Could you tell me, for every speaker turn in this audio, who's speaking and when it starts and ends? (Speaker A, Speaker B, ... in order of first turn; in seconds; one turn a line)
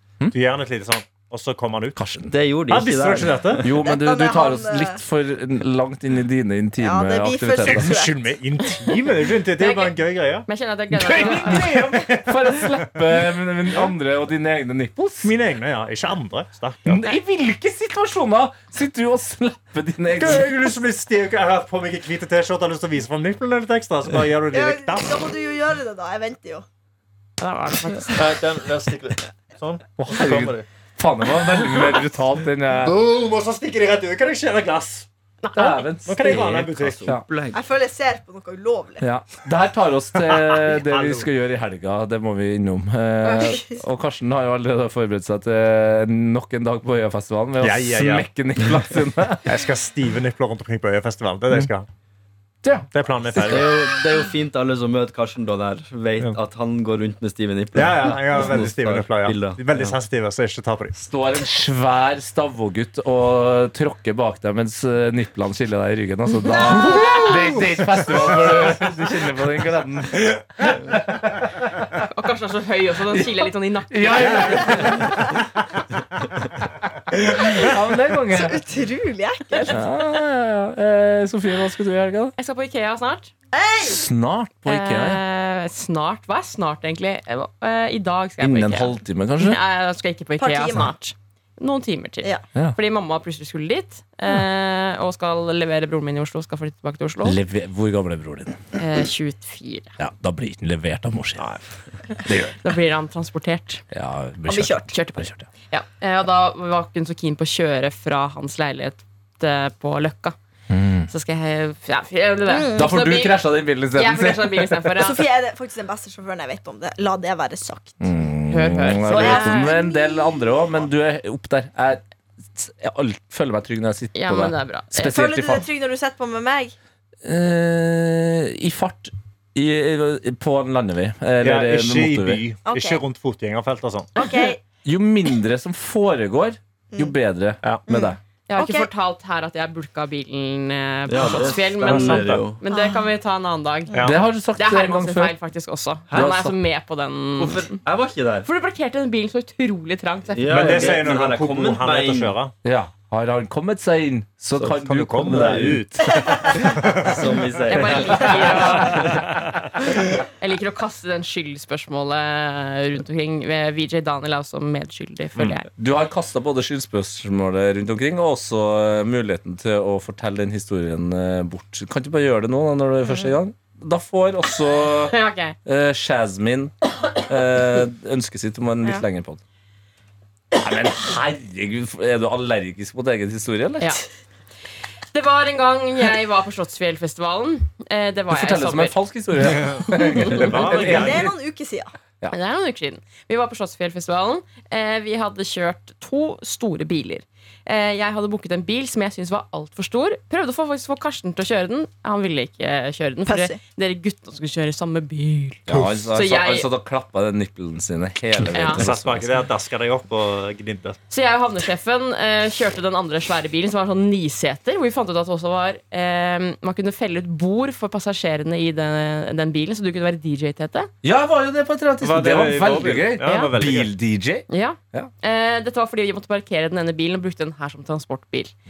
Speaker A: 0.3-2.0
Speaker B: 2.0-2.3
Speaker C: 2.3-3.7
Speaker A: 2.7-3.6
Speaker B: 3.6-8.0
Speaker D: 3.7-5.0
Speaker D: 6.8-8.1
Speaker A: 7.7-10.5
Speaker E: 9.6-11.8
Speaker B: 10.9-15.3
Speaker A: 11.5-12.8
Speaker A: 15.2-17.0
Speaker B: 16.9-20.5
Speaker A: 20.2-25.2
Speaker D: 24.5-26.6
Speaker E: 27.4-28.3
Speaker A: 28.1-30.6
Speaker B: 30.0-33.0
Speaker A: 32.8-35.1
Speaker E: 35.4-35.9
Speaker B: 35.6-37.2
Speaker A: 36.0-37.1
Speaker C: 36.3-37.6
Speaker D: 37.5-39.0
Speaker B: 39.0-49.5
Speaker A: 40.3-41.3
Speaker D: 43.2-43.8
Speaker A: 47.6-48.3
Speaker A: 49.5-51.9
Speaker B: 52.6-53.6
Speaker A: 52.9-53.9
Speaker C: 53.4-60.0
Speaker A: 57.7-61.0
Speaker B: 61.0-72.0
Speaker A: 66.6-69.0
Speaker E: 72.1-75.0
Speaker B: 73.1-75.4
Speaker B: 77.1-78.6
Speaker D: 77.3-77.7
Speaker D: 78.3-79.9
Speaker B: 79.7-82.3
Speaker E: 82.4-83.3
Speaker D: 83.5-84.0
Speaker B: 83.8-85.2
Speaker E: 84.7-97.4
Speaker B: 88.4-89.6
Speaker D: 90.4-90.9
Speaker B: 97.2-98.6
Speaker E: 98.8-100.0
Speaker B: 100.0-101.6
Speaker B: 102.2-102.7
Speaker E: 102.6-103.8
Speaker B: 103.9-105.5
Speaker D: 104.5-104.9
Speaker E: 104.9-110.4
Speaker B: 110.7-111.1
Speaker E: 111.1-115.2
Speaker D: 112.5-113.1
Speaker B: 112.7-115.0
Speaker D: 115.0-118.0
Speaker B: 118.0-122.0
Speaker E: 118.5-119.8
Speaker D: 119.0-120.1
Speaker B: 122.6-125.7
Speaker E: 124.2-125.2
Speaker D: 125.0-126.7
Speaker B: 127.2-132.4
Speaker A: 131.4-134.1
Speaker D: 132.7-133.0
Speaker D: 134.2-134.6
Speaker E: 134.2-134.6
Speaker B: 134.8-138.2
Speaker D: 137.9-138.9
Speaker E: 138.5-144.0
Speaker C: 141.1-142.6
Speaker A: 141.2-142.4
Speaker D: 142.7-143.1
Speaker A: 143.9-144.2
Speaker B: 144.0-145.3
Speaker E: 144.6-147.8
Speaker C: 146.1-146.4
Speaker B: 146.1-146.6
Speaker C: 147.4-148.5
Speaker E: 148.4-151.0
Speaker C: 150.3-152.3
Speaker A: 150.5-152.5
Speaker B: 152.6-156.2
Speaker C: 154.6-155.8
Speaker A: 154.8-157.4
Speaker C: 156.5-159.2
Speaker E: 157.7-159.0
Speaker A: 159.1-159.6
Speaker E: 160.4-165.7
Speaker B: 165.4-179.4
Speaker D: 173.1-173.3
Speaker E: 175.1-175.6
Speaker B: 180.5-184.0
Speaker E: 185.1-189.0
Speaker B: 188.3-191.3
Speaker A: 190.3-191.2
Speaker D: 190.3-191.9
Speaker E: 192.3-206.7
Speaker D: 203.3-203.6
Speaker B: 205.7-209.4
Speaker A: 205.7-205.9
Speaker E: 208.5-208.8
Speaker A: 208.7-211.0
Speaker E: 211.1-220.9
Speaker B: 221.0-225.1
Speaker A: 222.0-223.9
Speaker E: 223.2-223.5
Speaker E: 224.5-228.6